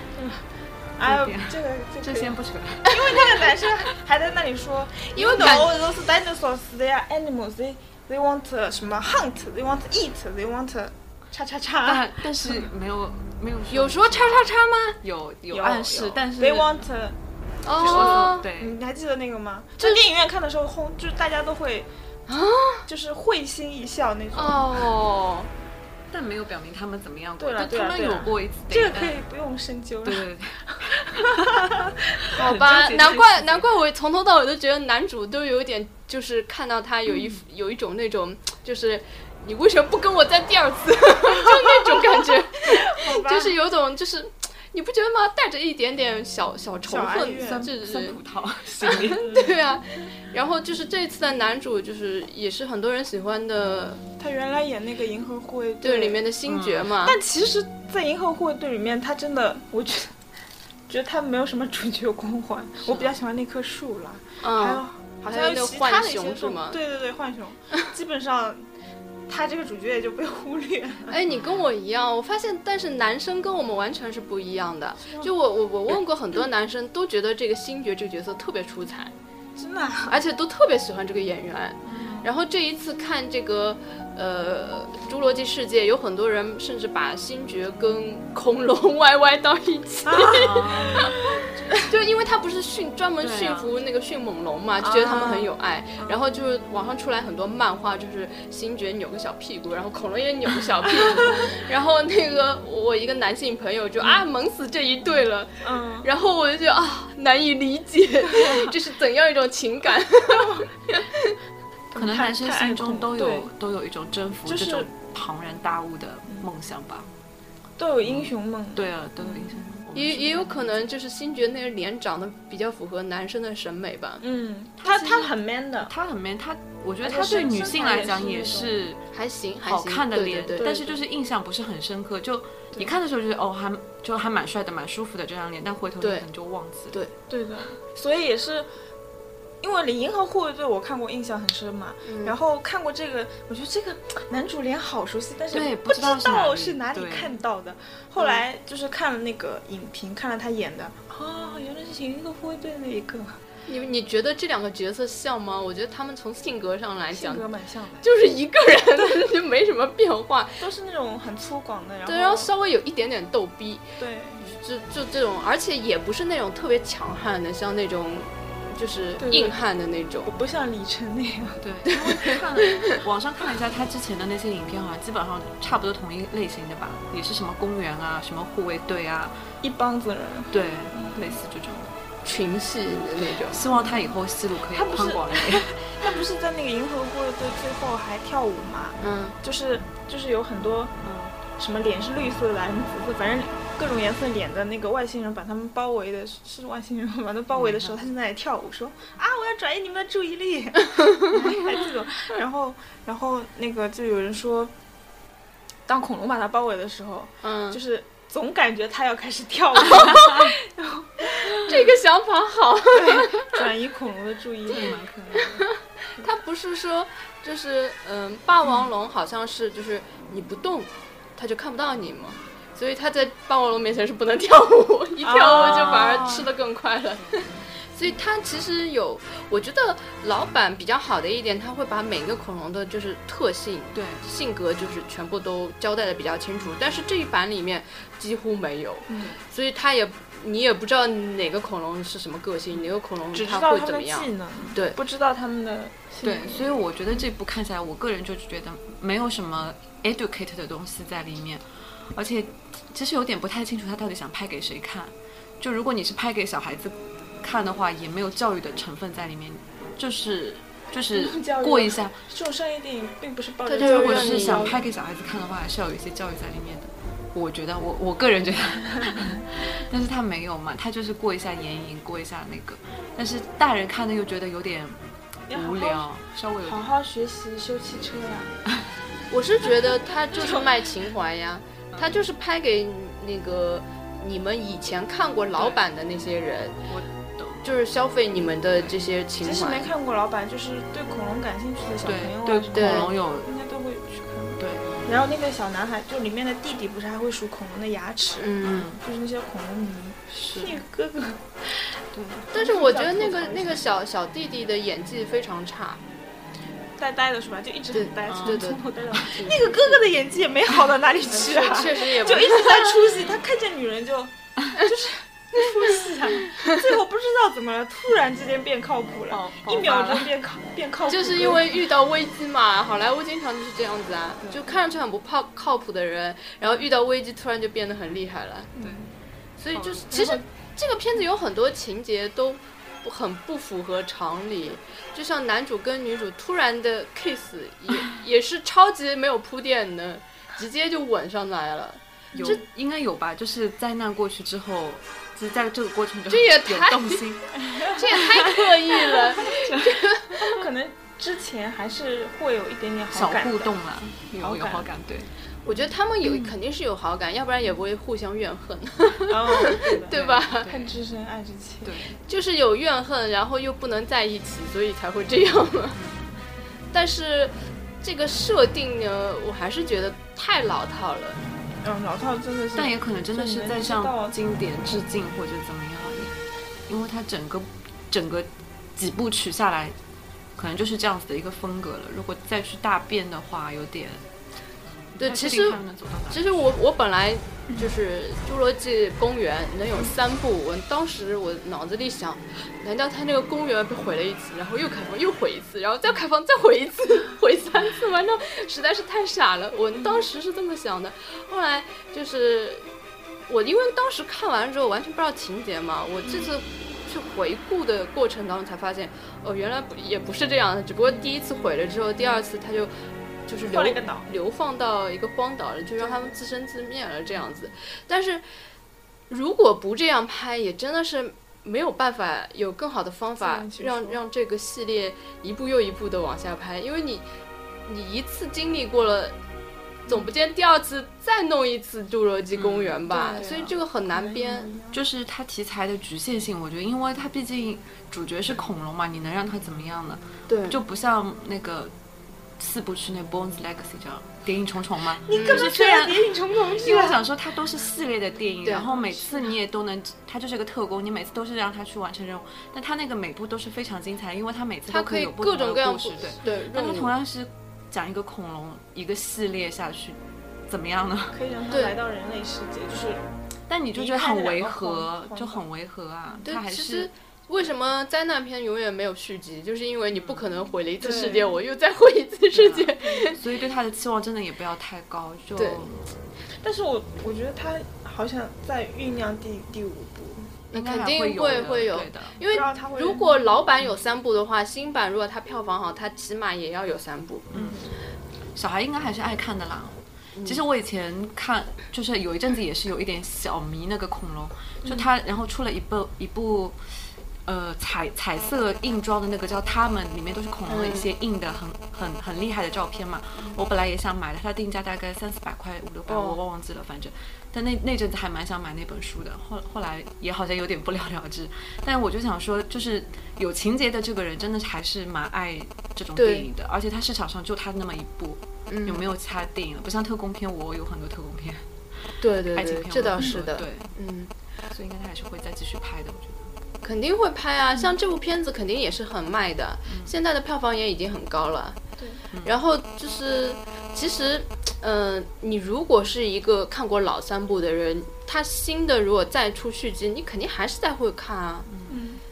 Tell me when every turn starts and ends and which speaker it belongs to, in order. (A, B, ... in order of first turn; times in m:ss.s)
0:00.1-0:12.7 A
0:01.0-0:03.5 B
0:05.2-0:05.7 C
0:11.8-0:16.9 B
0:13.7-0:15.0 C
0:15.5-0:17.2 A
0:17.6-0:18.4 C
0:17.8-0:21.9 A
0:17.8-0:18.8 B
0:22.3-0:22.9 C
0:22.9-0:24.7 A
0:24.3-0:25.5 C
0:26.1-0:29.2 B
0:27.4-0:32.3 A
0:30.0-0:33.6 B
0:32.3-0:48.2 C
0:42.6-0:43.6 A
0:46.9-0:47.7 A
0:47.4-0:49.3 B
0:48.8-0:54.0 C
0:49.1-0:49.6 A
0:54.2-0:56.2 A
0:55.8-0:57.2 C
0:56.5-0:56.9 B
0:57.0-1:00.2 A
1:00.9-1:08.7 A
1:02.9-1:03.2 B
1:04.4-1:06.8 C
1:09.3-1:11.2 A
1:11.1-1:19.1 C
1:15.0-1:15.3 A
1:19.6-1:20.1 A
1:20.1-1:31.2 C
1:21.8-1:22.3 A
1:30.1-1:31.8 A
1:30.3-1:31.2 B
1:31.8-1:51.4 C
1:33.2-1:33.8 B
1:34.8-1:36.2 A
1:45.6-1:46.1 A
1:48.4-1:48.7 A
1:51.9-1:53.5 A
1:51.9-1:57.1 B
1:54.5-1:54.9 A
1:57.8-1:59.6 A
1:58.0-2:00.7 B
1:59.9-2:04.2 C
2:04.2-2:05.9 A
2:04.8-2:09.0 B
2:07.0-2:08.8 A
2:09.1-2:10.7 C
2:09.6-2:17.0 B
2:10.6-2:11.0 A
2:16.0-2:16.3 C
2:17.3-2:18.7 A
2:19.6-2:33.4 A
2:22.0-2:22.4 C
2:25.5-2:27.4 B
2:33.7-2:37.4 C
2:37.1-2:38.1 A
2:38.0-2:40.6 C
2:40.6-2:42.5 A
2:42.1-2:43.8 C
2:44.0-2:44.5 A
2:44.4-2:50.3 C
2:49.2-2:49.6 A
2:50.2-2:51.6 A
2:51.6-2:59.4 B
2:51.9-2:52.9 C
2:59.6-3:01.4 A
3:00.5-3:01.9 B
3:02.2-3:03.6 C
3:03.5-3:06.0 B
3:03.7-3:10.9 A
3:09.0-3:09.4 C
3:11.0-3:11.4 B
3:11.6-3:24.7 A
3:17.5-3:18.0 B
3:25.9-3:31.9 A
3:27.4-3:27.8 C
3:30.0-3:30.2 C
3:30.0-3:30.5 B
3:31.5-3:33.6 C
3:32.9-3:35.4 A
3:34.7-3:35.6 B
3:35.4-4:05.0 C
3:45.2-3:46.2 A
3:45.4-3:46.5 B
3:53.9-3:54.2 B
3:59.1-3:59.4 A
4:03.3-4:06.8 A
4:06.2-4:22.2 B
4:21.1-4:24.8 A
4:23.7-4:24.8 C
4:23.8-4:35.0 B
4:35.5-4:36.1 A
4:35.5-4:36.8 B
4:36.6-4:38.6 A
4:39.3-4:46.8 C
4:40.4-4:40.7 A
4:41.9-4:42.2 B
4:46.9-4:47.6 B
4:47.6-4:49.9 C
4:49.4-5:03.8 A
4:52.0-4:53.5 B
4:52.7-4:53.1 C
4:54.6-4:55.0 B
4:58.4-4:58.9 C
4:58.6-4:59.0 B
5:00.3-5:00.8 B
5:02.1-5:02.4 B
5:02.5-5:06.0 C
5:07.0-5:21.8 A
5:07.9-5:09.9 C
5:08.3-5:08.7 B
5:09.3-5:09.6 B
5:11.3-5:13.2 C
5:19.3-5:20.3 B
5:21.1-5:28.7 C
5:28.8-5:29.1 A
5:28.8-5:29.1 B
5:29.6-5:42.6 C
5:29.7-5:30.1 B
5:30.1-5:30.4 A
5:42.3-5:42.6 A
5:42.4-5:50.0 B
5:46.3-5:47.3 C
5:47.6-5:48.2 A
5:47.8-5:50.6 C
5:50.4-5:53.8 A
5:53.1-5:55.3 B
5:54.4-5:54.9 A
5:55.6-6:00.7 C
5:59.3-6:02.0 A
6:00.1-6:01.0 B
6:01.8-6:02.2 B
6:02.3-6:06.0 C
6:06.0-6:06.3 B
6:06.9-6:11.4 C
6:11.8-6:14.4 A
6:12.8-6:16.4 B
6:16.9-6:20.0 B
6:20.6-6:24.2 B
6:25.1-6:26.7 B
6:25.2-6:42.9 C
6:40.0-6:40.2 A
6:43.5-6:52.9 C
6:53.5-6:58.4 C
6:53.7-6:54.3 A
6:56.0-6:56.4 A
6:59.3-7:07.3 C
7:03.4-7:04.2 A
7:07.9-7:09.4 C
7:10.1-7:14.7 C
7:12.6-7:13.5 B
7:13.1-7:15.0 A
7:14.9-7:21.9 B
7:20.5-7:20.8 C
7:22.6-7:41.4 B
7:25.2-7:27.2 A
7:25.3-7:25.7 C
7:28.6-7:28.9 C
7:28.9-7:29.5 A
7:34.9-7:37.1 C
7:41.3-7:43.2 A
7:41.7-7:42.0 C
7:43.7-7:47.1 B
7:43.9-7:45.6 A
7:46.4-7:53.4 C
7:50.1-7:50.4 B
7:51.0-7:51.6 A
7:52.5-7:56.1 B
7:53.0-7:53.3 A
7:55.6-7:55.9 C
7:56.6-8:00.5 A
8:00.7-8:07.5 C
8:00.7-8:02.4 B
8:02.5-8:03.4 A
8:07.5-8:07.8 B
8:07.5-8:07.9 A
8:08.6-8:41.7 B
8:10.4-8:10.6 C
8:20.7-8:21.1 C
8:26.1-8:26.4 C
8:36.2-8:36.5 C
8:38.7-8:39.0 C
8:42.2-8:44.3 C
8:42.5-8:43.9 B
8:44.7-8:46.5 B
8:46.8-8:51.8 C
8:49.9-8:50.2 B
8:52.4-9:01.7 C
9:01.7-9:02.0 B
9:01.9-9:02.2 A